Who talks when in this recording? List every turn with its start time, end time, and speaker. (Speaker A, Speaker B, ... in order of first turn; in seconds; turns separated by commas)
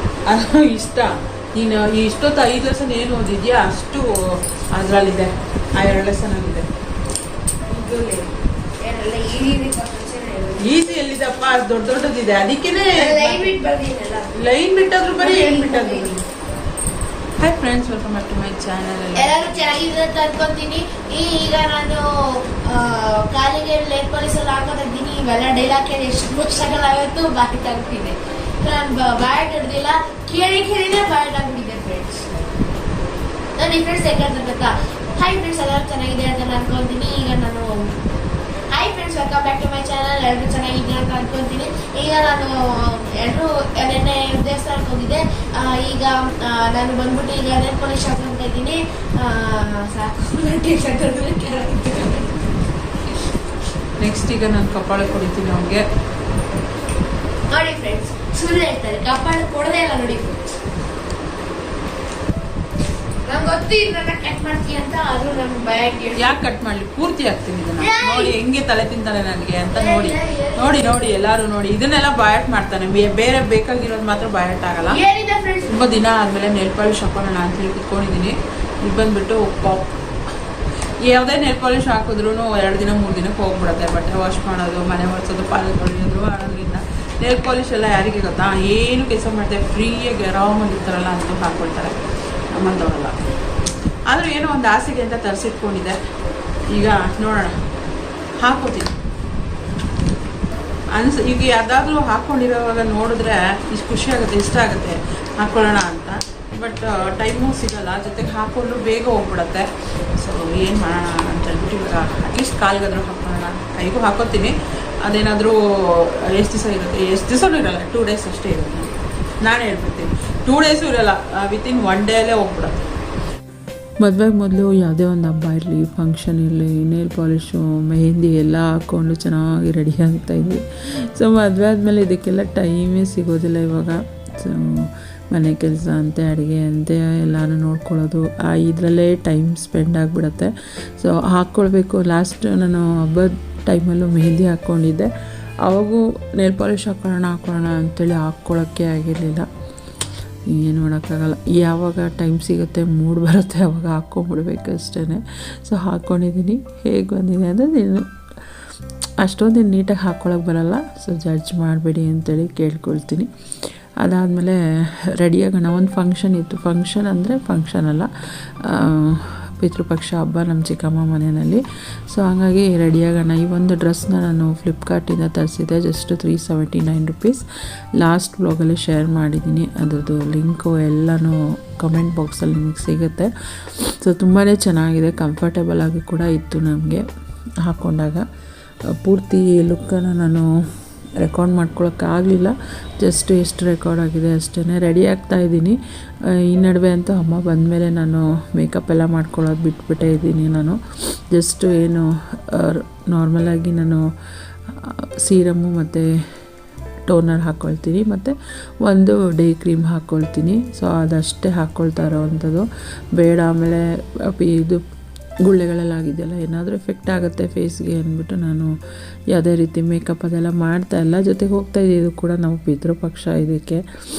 Speaker A: 0.3-4.1, Speaker A: 4.7-6.6, Speaker B: 7.7-8.1, Speaker B: 8.8-10.8, Speaker A: 10.6-13.5, Speaker B: 12.9-14.4, Speaker A: 14.3-16.1, Speaker B: 15.1-16.1, Speaker A: 17.4-19.5, Speaker C: 17.6-19.1, Speaker B: 19.1-32.3, Speaker B: 33.6-37.9, Speaker B: 38.7-52.5, Speaker A: 54.0-55.8, Speaker B: 57.5-60.5, Speaker B: 63.2-66.4, Speaker A: 66.2-74.9, Speaker B: 67.8-68.3, Speaker B: 69.7-71.0, Speaker B: 74.9-75.7, Speaker A: 75.7-77.6, Speaker C: 76.2-78.3, Speaker C: 78.9-79.6, Speaker A: 79.0-79.8, Speaker C: 81.1-86.6, Speaker A: 81.1-91.9, Speaker C: 87.3-91.8, Speaker A: 92.5-93.1, Speaker A: 94.1-95.9, Speaker C: 95.6-95.9, Speaker A: 96.8-97.5, Speaker A: 98.4-98.9, Speaker A: 101.0-109.7, Speaker A: 110.2-114.5, Speaker A: 115.0-118.9, Speaker A: 119.4-122.8, Speaker C: 124.0-130.6, Speaker C: 131.1-145.1, Speaker C: 145.6-149.5, Speaker C: 150.5-158.6, Speaker C: 159.2-163.3, Speaker C: 164.0-164.6, Speaker C: 165.1-168.1, Speaker C: 168.6-177.4, Speaker C: 178.0-187.0, Speaker C: 187.6-188.2, Speaker C: 189.0-190.5, Speaker C: 191.2-195.8, Speaker C: 196.3-200.8, Speaker C: 201.3-204.0, Speaker C: 204.7-206.1, Speaker C: 207.1-214.8, Speaker C: 215.4-218.7, Speaker C: 219.3-223.8